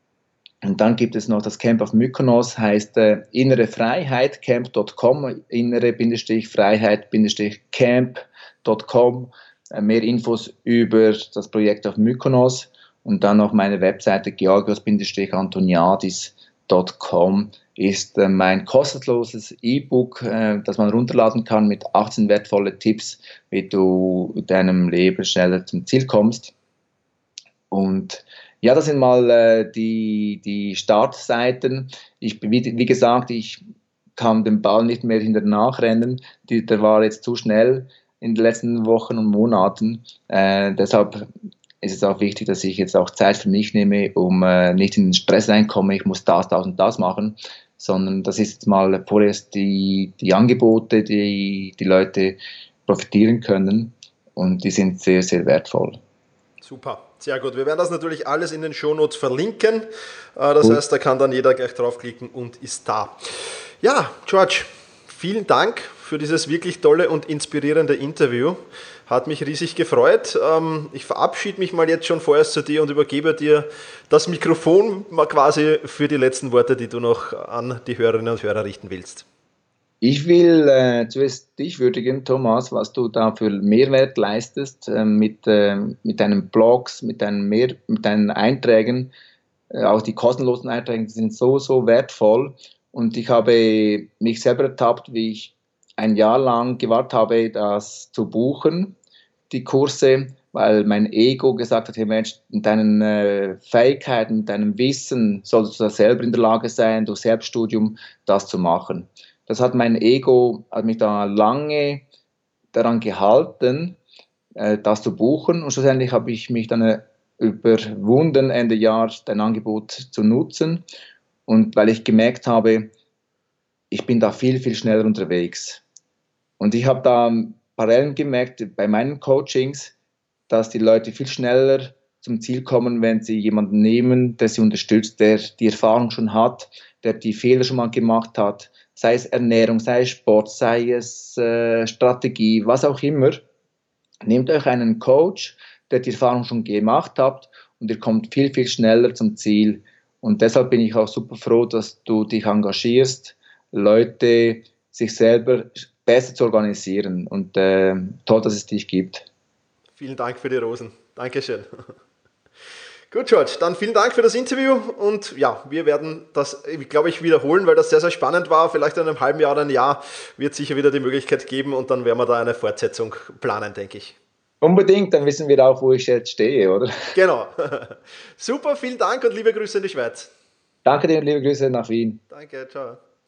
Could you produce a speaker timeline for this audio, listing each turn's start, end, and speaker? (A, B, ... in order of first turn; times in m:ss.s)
0:00.6-0:26.5 A
0:27.7-0:33.6 A
0:34.2-0:41.2 A
0:41.8-0:56.0 A
0:56.6-1:19.2 B
1:20.0-1:29.1 A
1:29.7-1:38.9 A
1:39.5-1:52.0 A
1:52.7-1:54.0 A
1:54.6-2:00.8 A
2:01.5-2:02.9 A
2:03.9-2:05.8 A
2:06.6-2:09.9 A
2:10.5-2:23.4 A
2:24.2-2:39.3 A
2:40.0-2:41.9 B
2:43.1-2:54.2 B
2:54.6-2:56.9 A
2:57.1-3:00.3 B
3:00.8-3:02.2 A
3:02.3-3:03.0 B